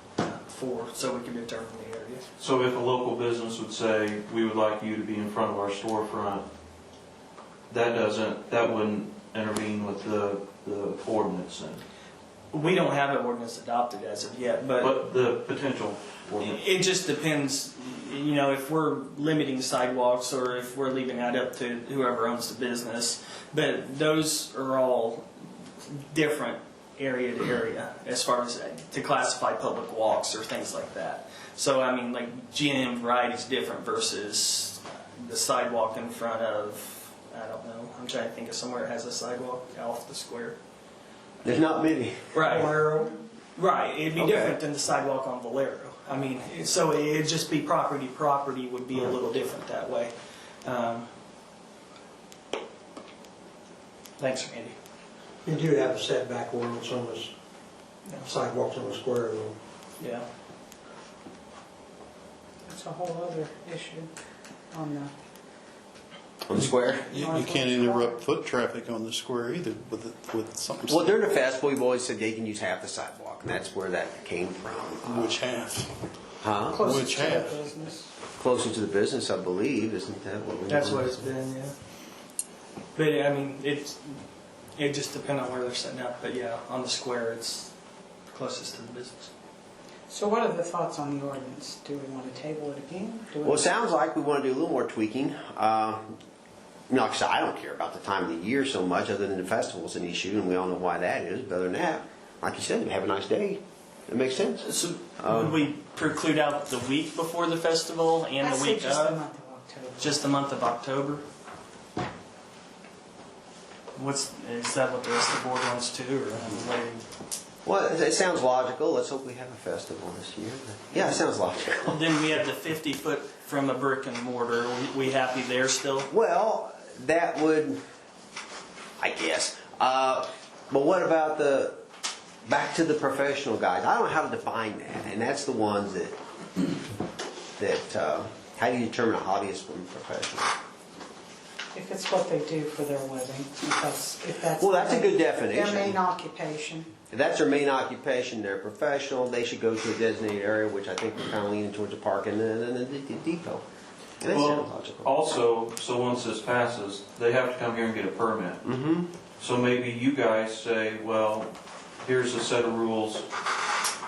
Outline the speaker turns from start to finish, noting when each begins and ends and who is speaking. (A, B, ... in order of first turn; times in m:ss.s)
0:00.2-0:02.2 A
0:02.4-0:06.4 B
0:07.7-0:11.8 B
0:12.5-0:14.9 A
0:14.8-0:16.6 B
0:16.4-0:25.3 A
0:25.8-0:40.6 A
0:41.4-0:42.4 C
0:42.3-0:50.1 A
0:44.2-0:44.6 C
0:50.6-0:51.1 A
0:54.2-0:54.8 A
0:55.4-0:57.3 D
0:58.2-0:59.6 D
1:00.0-1:00.2 A
1:02.7-1:04.1 E
1:04.7-1:05.1 E
1:06.5-1:07.1 C
1:06.6-1:11.2 F
1:07.1-1:08.2 E
1:10.9-1:15.4 C
1:15.0-1:15.9 F
1:16.4-1:16.8 C
1:16.7-1:18.1 E
1:16.7-1:17.7 F
1:18.3-1:21.3 C
1:20.7-1:21.7 A
1:23.0-1:24.2 A
1:24.8-1:27.7 A
1:28.3-1:29.3 A
1:30.1-1:33.8 E
1:33.4-1:36.1 C
1:36.9-1:44.6 C
1:44.6-1:49.2 A
1:45.2-1:45.6 C
1:48.4-1:50.2 E
1:50.0-1:51.2 A
1:53.9-1:57.0 A
1:57.6-2:02.0 C
2:01.8-2:06.1 A
2:06.1-2:07.8 C
2:09.0-2:11.8 C
2:12.4-2:16.2 C
2:17.6-2:20.5 C
2:21.7-2:26.9 E
2:24.6-2:26.0 C
2:27.1-2:33.6 C
2:34.2-2:35.1 C
2:34.3-2:38.6 B
2:38.6-2:39.1 C
2:39.4-2:43.3 B